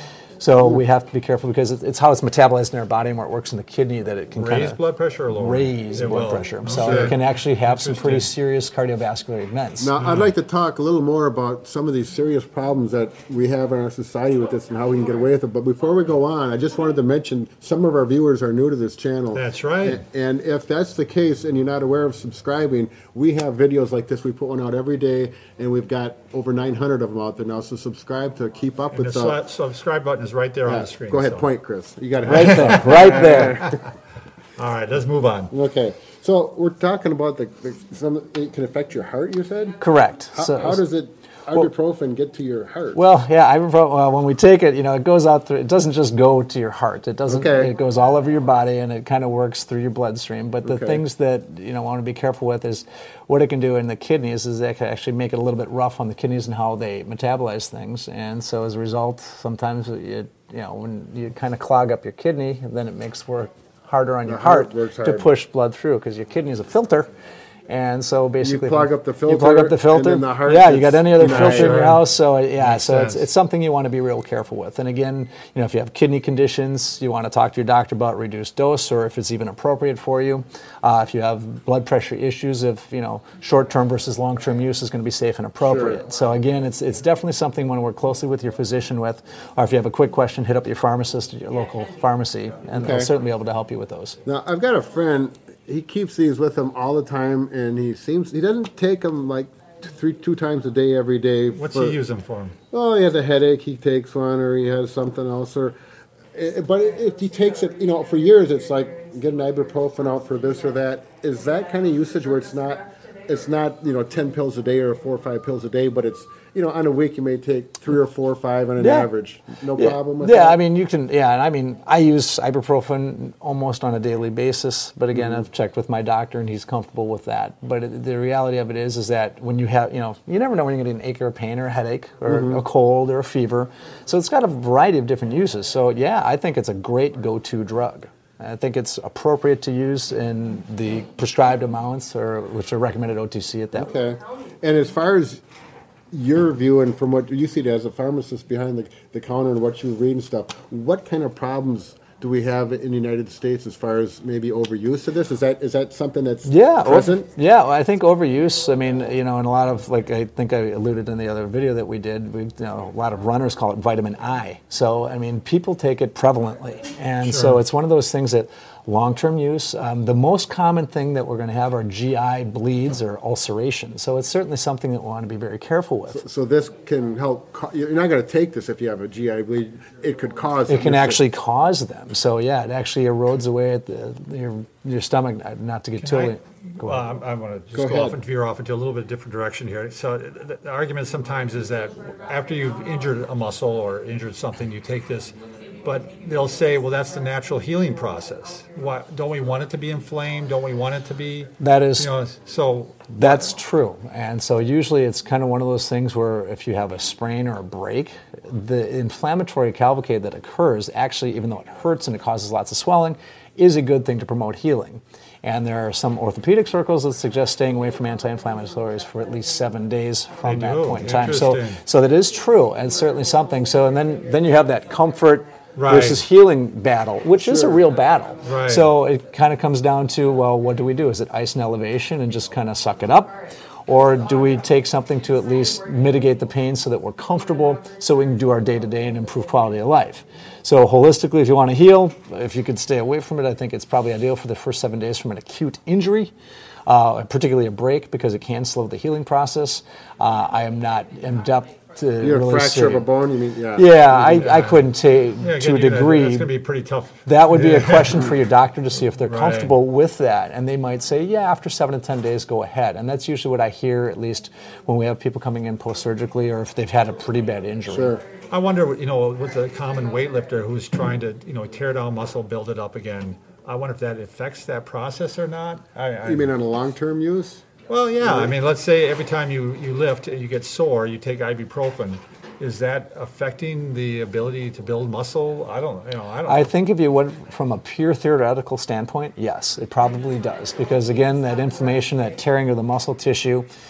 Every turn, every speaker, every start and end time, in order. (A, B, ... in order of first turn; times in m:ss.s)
0:00.4-0:04.8 A
0:04.4-0:08.3 B
0:05.3-0:09.9 A
0:06.8-0:07.1 C
0:09.8-0:29.4 C
0:10.0-0:10.3 B
0:19.3-0:20.0 B
0:28.9-0:31.5 B
0:30.6-0:33.8 C
0:32.2-0:33.8 B
0:32.3-0:33.6 A
0:34.6-0:35.5 B
0:35.5-0:39.8 C
0:39.8-0:40.8 A
0:40.3-0:43.0 C
0:42.9-1:07.1 A
0:47.3-0:47.7 C
0:50.6-0:51.0 C
1:04.2-1:05.3 C
1:07.7-1:34.2 A
1:08.4-1:11.8 C
1:11.2-1:12.0 B
1:12.6-1:13.2 B
1:25.6-1:26.0 C
1:32.7-1:33.1 C
1:34.2-1:42.0 C
1:41.5-1:42.6 B
1:42.7-1:45.8 C
1:46.3-2:00.6 C
1:58.8-1:59.1 A
1:59.7-2:23.9 A
2:12.2-2:12.6 C
2:23.7-2:25.4 C
2:26.1-2:37.3 C
2:36.4-2:56.2 A
2:47.2-2:47.6 B
2:56.1-3:01.2 C
3:00.7-3:07.0 A
3:06.0-3:23.5 B
3:07.7-3:08.2 C
3:21.6-3:22.1 A
3:23.1-3:53.3 A
3:40.4-3:41.8 B
3:45.8-3:46.2 B
3:47.4-3:47.8 C
3:48.4-3:48.9 B
3:53.9-4:06.3 A
4:06.9-4:13.1 A
4:12.2-4:14.4 C
4:13.7-4:16.5 A
4:14.2-4:18.3 B
4:17.2-4:28.2 A
4:19.2-4:19.7 B
4:27.9-4:28.2 C
4:28.5-4:36.5 B
4:36.2-4:37.6 C
4:37.9-4:46.7 B
4:38.2-4:38.5 C
4:46.4-4:53.7 A